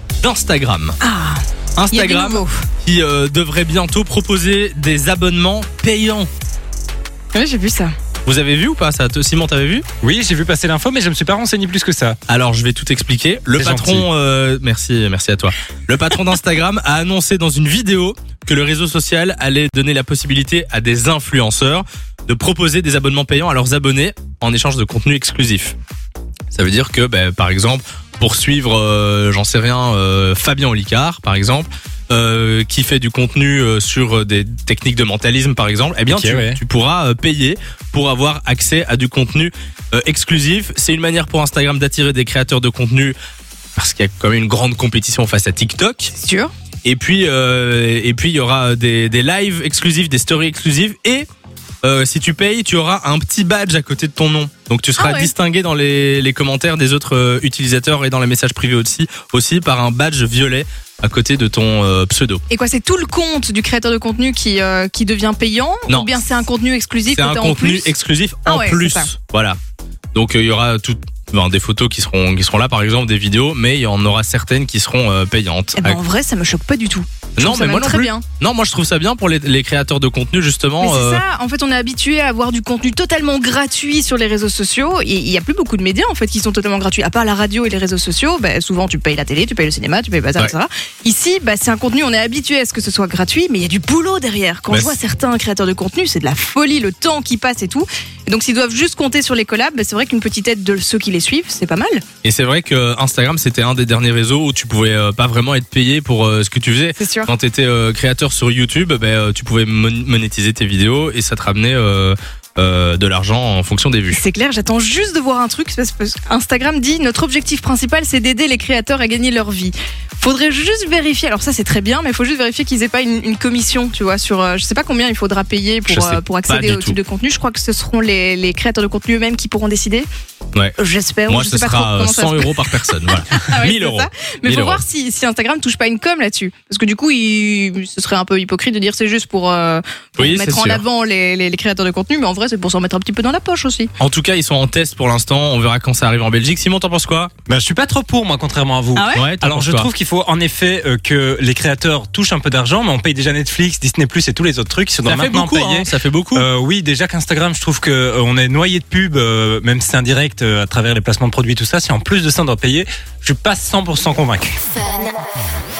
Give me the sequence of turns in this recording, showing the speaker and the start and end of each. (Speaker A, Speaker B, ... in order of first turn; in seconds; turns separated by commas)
Speaker A: 0.2-1.0, Speaker B: 1.0-2.5, Speaker A: 1.8-6.3, Speaker B: 7.3-7.9, Speaker A: 8.2-9.8, Speaker C: 10.0-12.2, Speaker A: 12.3-25.8, Speaker C: 13.6-14.1, Speaker A: 26.5-43.1, Speaker C: 36.1-36.6, Speaker A: 43.8-46.1, Speaker B: 46.2-46.5, Speaker A: 46.8-51.3, Speaker A: 51.8-62.4, Speaker B: 55.0-55.3, Speaker B: 62.5-67.9, Speaker A: 65.9-66.2, Speaker A: 67.1-69.6, Speaker B: 68.5-69.1, Speaker A: 70.1-76.0, Speaker B: 75.8-78.2, Speaker A: 77.4-81.2, Speaker B: 80.8-102.0, Speaker A: 94.7-94.9, Speaker A: 102.2-114.2, Speaker B: 107.0-107.3, Speaker B: 114.1-130.1, Speaker A: 125.9-127.0, Speaker B: 130.8-143.9, Speaker A: 131.3-134.8, Speaker A: 140.2-140.8, Speaker A: 144.0-147.3, Speaker C: 147.5-164.6, Speaker B: 148.9-149.2, Speaker A: 149.1-149.9, Speaker A: 155.1-156.5